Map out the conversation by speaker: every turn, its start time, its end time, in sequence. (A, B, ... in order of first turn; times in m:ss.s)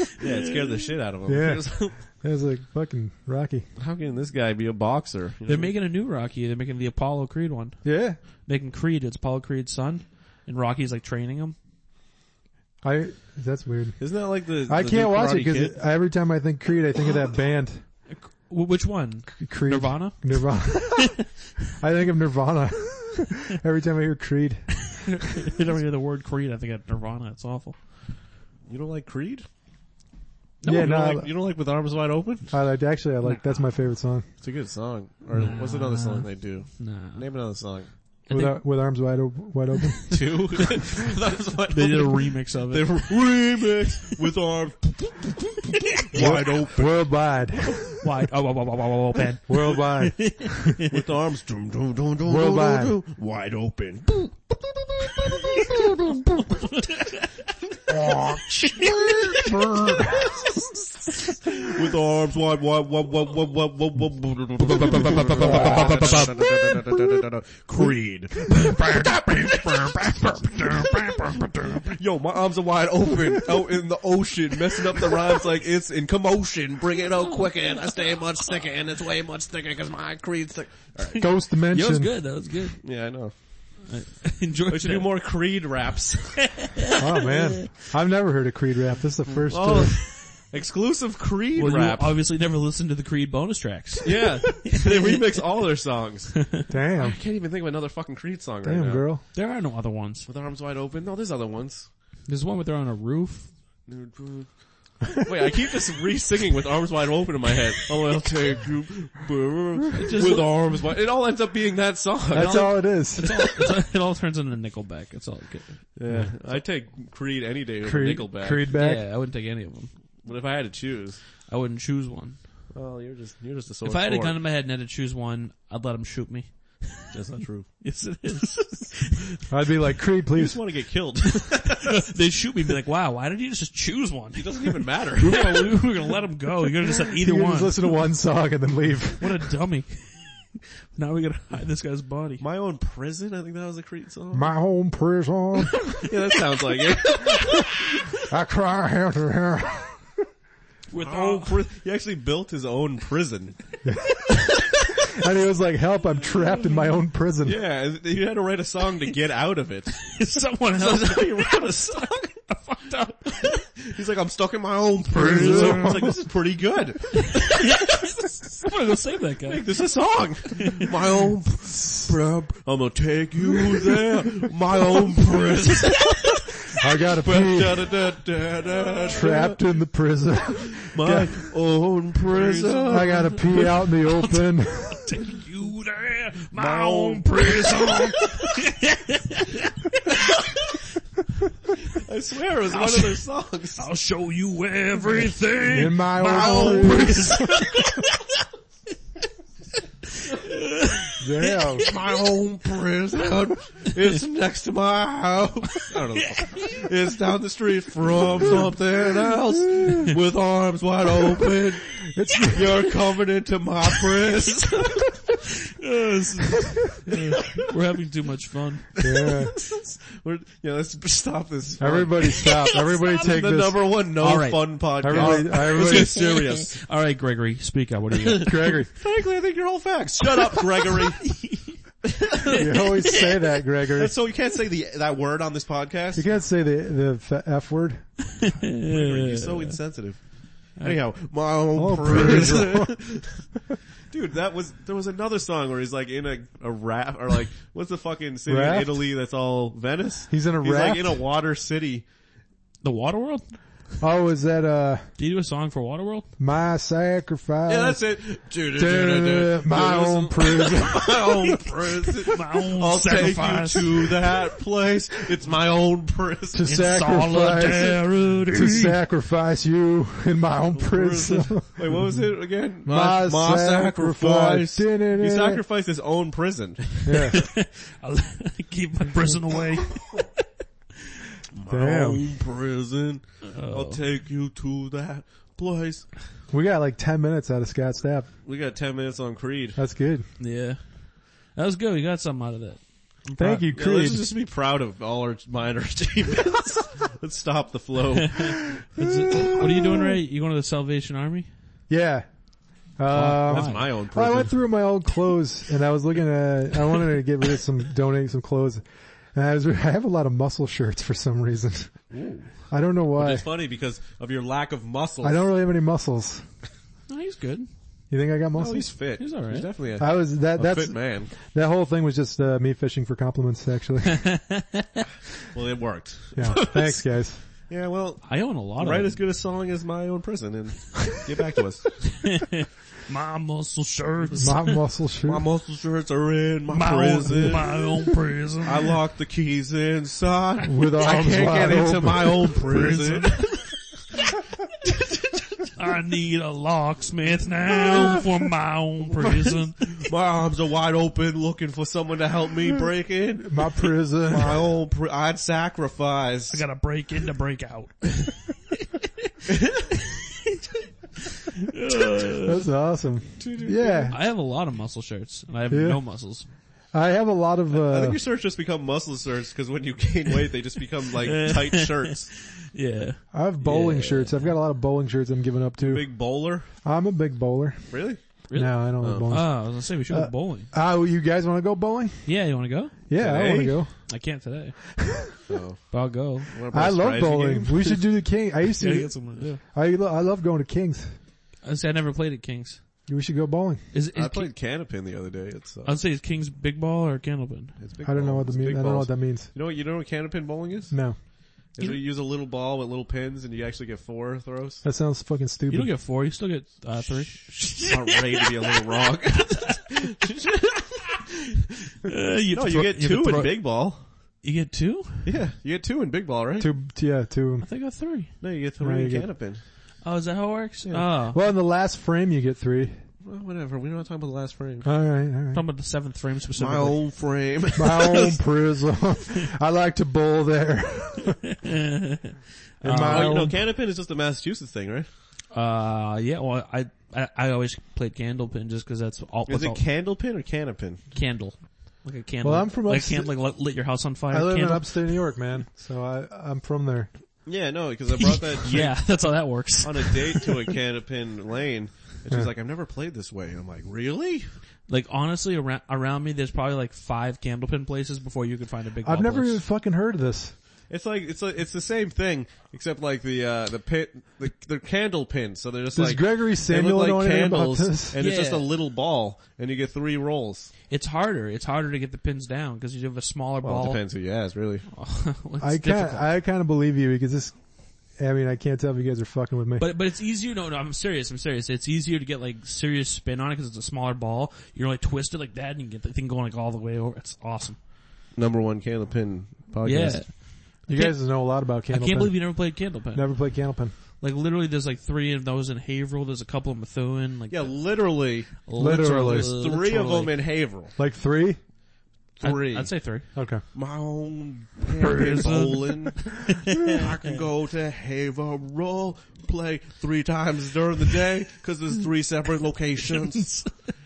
0:00.2-0:02.0 A
0:01.3-0:03.7 B
0:03.8-0:05.7 A
0:05.5-0:07.8 C
0:07.8-0:08.2 B
0:08.4-0:11.6 C
0:12.8-0:14.0 B
0:14.0-0:15.8 A
0:14.7-0:17.8 B
0:18.1-0:20.3 C
0:19.4-0:21.2 B
0:21.8-0:24.8 B
0:24.8-0:27.8 C
0:28.7-0:29.5 A
0:30.6-0:30.9 C
0:30.6-0:31.3 B
0:30.6-0:32.5 A
0:32.5-0:34.3 B
0:34.4-0:37.9 A
0:35.3-0:37.2 C
0:38.3-0:38.6 C
0:38.3-0:40.2 B
0:40.1-0:47.4 A
0:41.7-0:43.2 C
0:46.2-0:47.9 B
0:48.0-0:50.9 C
0:49.5-0:50.8 B
0:50.9-0:55.9 A
0:52.2-0:53.0 B
0:56.4-0:57.3 C
0:57.9-1:00.8 A
0:58.4-0:59.7 C
0:59.4-1:00.2 B
1:01.6-1:11.1 A
1:04.6-1:06.7 C
1:08.5-1:11.9 C
1:11.8-1:21.3 A
1:21.2-1:22.1 B
1:21.7-1:22.8 C
1:22.8-1:23.3 A
1:23.9-1:25.2 C
1:24.7-1:26.5 A
1:26.5-1:27.5 C
1:27.0-1:30.0 B
1:29.3-1:32.2 A
1:31.6-1:35.2 C
1:34.0-1:39.1 A
1:36.7-1:37.2 B
1:38.6-1:39.2 B
1:39.3-1:40.3 C
1:40.3-1:41.9 A
1:42.3-1:43.5 C
1:43.9-1:53.4 A
1:50.0-1:50.8 C
1:52.3-1:53.3 B
1:52.3-1:55.9 C
1:56.0-1:58.7 A
1:57.8-1:59.0 B
1:58.7-1:59.9 C
2:00.2-2:01.2 A
2:01.5-2:02.4 C
2:02.7-2:04.4 A
2:03.8-2:07.1 C
2:07.1-2:07.7 A
2:07.8-2:09.3 C
2:09.5-2:10.6 B
2:10.3-2:12.0 A
2:11.7-2:17.9 C
2:14.4-2:15.8 A
2:16.9-2:19.4 B
2:19.2-2:20.4 C
2:21.0-2:22.4 C
2:22.4-2:24.5 A
2:24.3-2:26.0 B
2:26.0-2:27.6 A
2:26.9-2:27.6 C
2:28.3-2:30.1 B
2:30.9-2:31.6 C
2:31.0-2:33.6 A
2:33.8-2:34.5 B
2:35.1-2:37.6 B
2:37.4-2:40.0 A
2:40.0-2:43.6 C
2:40.7-2:42.3 A
2:43.4-2:48.0 A
2:45.1-2:46.1 C
2:45.2-2:46.1 B
2:47.3-2:49.6 C
2:49.5-2:56.4 A
2:51.8-2:52.1 B
2:56.8-2:57.9 B
2:57.2-2:59.6 A
2:59.1-3:01.4 B
3:00.8-3:03.7 A
3:02.3-3:10.2 C
3:02.9-3:05.0 B
3:06.6-3:08.5 A
3:12.0-3:13.9 A
3:12.7-3:13.2 C
3:13.8-3:18.4 C
3:15.7-3:17.9 B
3:16.2-3:17.2 A
3:20.3-3:22.0 C
3:21.2-3:21.9 B
3:21.8-3:31.9 A
3:26.2-3:26.7 C
3:32.0-3:32.8 B
3:32.5-3:35.2 A
3:35.3-3:38.9 C
3:39.0-3:46.8 A
3:39.0-3:39.6 B
3:41.8-3:44.1 B
3:42.4-3:43.1 C
3:44.2-3:48.8 C
3:45.0-3:46.2 B
3:48.3-3:51.4 A
3:48.4-3:48.9 B
3:50.6-3:51.8 C
3:52.4-3:52.9 A
3:52.4-3:53.4 C
3:52.5-3:54.1 B
3:54.0-3:56.3 A
3:56.2-3:58.1 B
3:58.4-3:59.8 C
3:58.8-4:03.5 A
4:01.8-4:03.0 B
4:04.1-4:12.1 A
4:08.5-4:09.0 B
4:10.3-4:11.2 B
4:12.8-4:13.5 C
4:14.0-4:15.1 B
4:15.2-4:16.3 C
4:16.4-4:18.0 B
4:17.7-4:26.7 A
4:18.8-4:21.6 B
4:22.3-4:24.2 C
4:26.5-4:32.1 B
4:26.7-4:29.0 C
4:30.7-4:37.4 A
4:32.8-4:35.6 B
4:37.0-4:37.4 B
4:37.3-4:40.3 C
4:41.6-4:46.1 A
4:41.7-4:42.2 B
4:43.4-4:44.0 C
4:46.5-4:48.3 B
4:48.4-4:49.8 A
4:49.8-4:50.2 B
4:50.4-4:50.8 C
4:51.5-4:53.7 C
4:53.4-4:54.2 B
4:53.7-4:58.7 A
4:58.3-5:01.5 C
4:59.5-5:00.1 B
5:01.9-5:02.3 B
5:03.0-5:12.0 B
5:03.1-5:03.9 C
5:03.2-5:04.6 A
5:12.1-5:12.5 A
5:12.7-5:13.5 B
5:13.2-5:15.4 A
5:15.2-5:16.4 B
5:17.1-5:17.7 C
5:18.1-5:18.9 B
5:18.6-5:21.3 A
5:19.2-5:19.7 C
5:20.0-5:24.3 B
5:24.1-5:25.0 C
5:25.5-5:27.0 A
5:26.4-5:27.4 B
5:27.7-5:31.9 A
5:28.2-5:29.2 C
5:32.2-5:34.8 C
5:34.4-5:35.4 B
5:35.3-5:37.8 A
5:36.7-5:38.9 C
5:37.3-5:37.6 B
5:38.6-5:43.5 A
5:40.6-5:42.7 B
5:42.7-5:43.7 C
5:45.8-5:50.0 C
5:50.0-5:53.8 A
5:53.4-5:54.6 B
5:54.3-5:56.6 A
5:56.5-6:00.3 C
6:01.6-6:02.6 C
6:02.4-6:04.2 B
6:03.4-6:04.2 A
6:04.1-6:06.5 C
6:05.7-6:06.0 B
6:06.9-6:08.2 B
6:07.7-6:12.3 A
6:11.2-6:14.5 C
6:13.3-6:16.1 B
6:15.8-6:16.7 A
6:16.8-6:17.9 B
6:17.9-6:18.2 A
6:18.5-6:20.7 C
6:18.5-6:22.3 B
6:19.0-6:19.3 A
6:22.3-6:23.0 C
6:23.1-6:23.9 B
6:23.2-6:23.8 A
6:24.1-6:25.0 C
6:25.5-6:25.8 A
6:25.9-6:26.5 C
6:26.5-6:28.0 A
6:26.7-6:31.2 B
6:28.8-6:29.6 C
6:31.6-6:32.8 C
6:33.1-6:33.8 B
6:33.9-6:34.5 C
6:34.1-6:36.0 A
6:35.8-6:37.8 C
6:37.8-6:41.0 A
6:38.0-6:39.5 B
6:40.9-6:41.2 B
6:41.7-6:44.8 A
6:44.8-6:45.9 B
6:45.7-6:48.9 C
6:47.8-6:50.5 A
6:49.5-6:50.2 C
6:52.0-6:53.7 C
6:52.5-6:54.0 A
6:54.4-6:55.3 C
6:55.2-6:56.7 A
6:56.6-6:57.7 B
6:57.6-6:58.3 C
6:58.4-6:59.6 A
6:58.8-6:59.3 B
7:00.0-7:01.4 C
7:01.3-7:03.0 B
7:03.2-7:04.9 A
7:04.8-7:05.6 B
7:05.5-7:07.0 C
7:06.6-7:08.4 A
7:07.8-7:11.4 B
7:11.6-7:13.5 C
7:12.8-7:13.6 B
7:13.0-7:15.1 A
7:15.5-7:19.8 C
7:19.5-7:21.0 A
7:21.1-7:25.2 C
7:22.4-7:23.3 B
7:24.3-7:27.1 B
7:27.5-7:29.0 A
7:28.2-7:30.6 C
7:29.8-7:34.5 A
7:34.9-7:39.6 C
7:39.0-7:40.6 B
7:40.9-7:50.7 A
7:45.9-7:48.2 B
7:48.2-7:48.7 C
7:50.9-7:54.0 C
7:53.6-7:54.8 A
7:54.9-7:56.3 C
7:55.6-7:57.6 B
7:58.2-7:59.9 B
7:59.8-8:07.8 C
8:08.4-8:10.2 A
8:09.8-8:13.6 C
8:10.9-8:13.9 B
8:14.2-8:18.0 C
8:17.5-8:18.5 A
8:18.5-8:20.4 C
8:18.8-8:19.5 B
8:19.3-8:20.9 A
8:21.0-8:21.6 B
8:22.4-8:23.0 A
8:22.4-8:23.3 C
8:23.4-8:23.6 B
8:23.7-8:26.3 A
8:25.0-8:27.0 C
8:26.8-8:33.6 A
8:33.1-8:33.9 C